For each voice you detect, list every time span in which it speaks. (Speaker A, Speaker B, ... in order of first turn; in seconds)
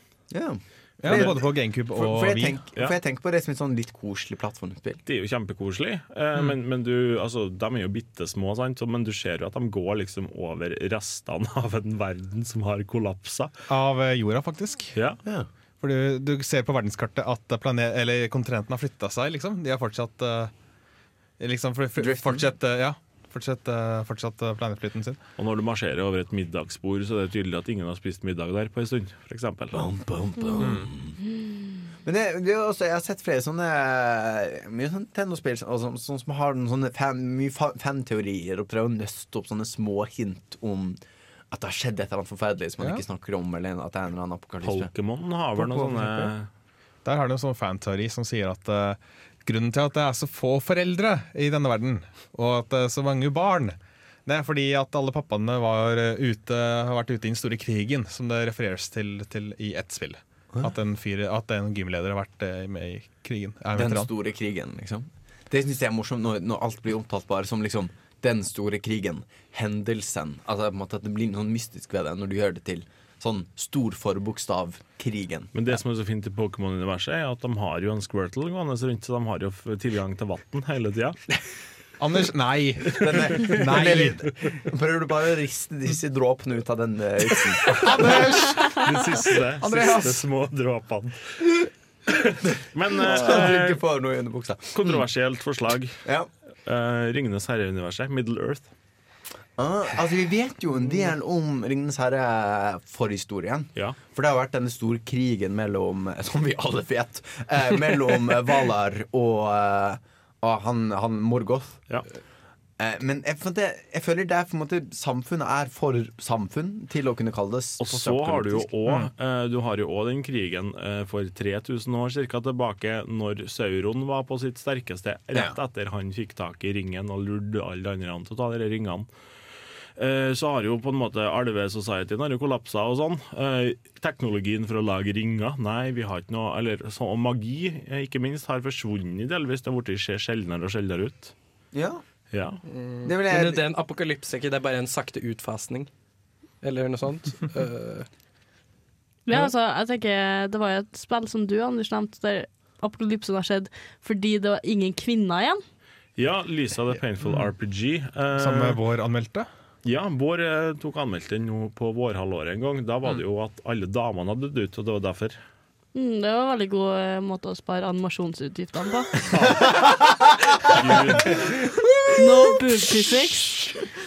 Speaker A: 0.3-5.0, 22.0-22.5, 29.7-31.3, 32.0-41.0, 41.5-44.9, 45.6-46.1, 63.7-75.8, 83.0-88.1, 92.9-95.0, 99.6-111.8, 112.8-118.7, 141.7-142.0, 143.0-143.7, 169.3-172.5
Speaker B: 1.0-2.6, 13.7-14.9, 15.8-20.5, 21.4-25.2, 30.6-30.9, 45.6-46.3, 47.0-64.1, 82.0-84.2, 87.7-90.3, 158.3-159.5
Speaker C: 1.1-1.3, 5.0-13.5, 14.9-15.2, 25.4-29.9, 44.6-46.5, 75.5-81.2, 88.6-91.3, 92.7-93.8, 94.7-96.0, 96.6-98.7, 117.8-129.1, 130.0-141.3, 142.3-142.6, 156.2-158.8, 159.8-165.4, 169.3-169.8, 170.7-171.5
Speaker D: 142.6-145.9, 146.6-148.1
Speaker E: 149.3-155.6, 165.9-169.1, 172.1-173.7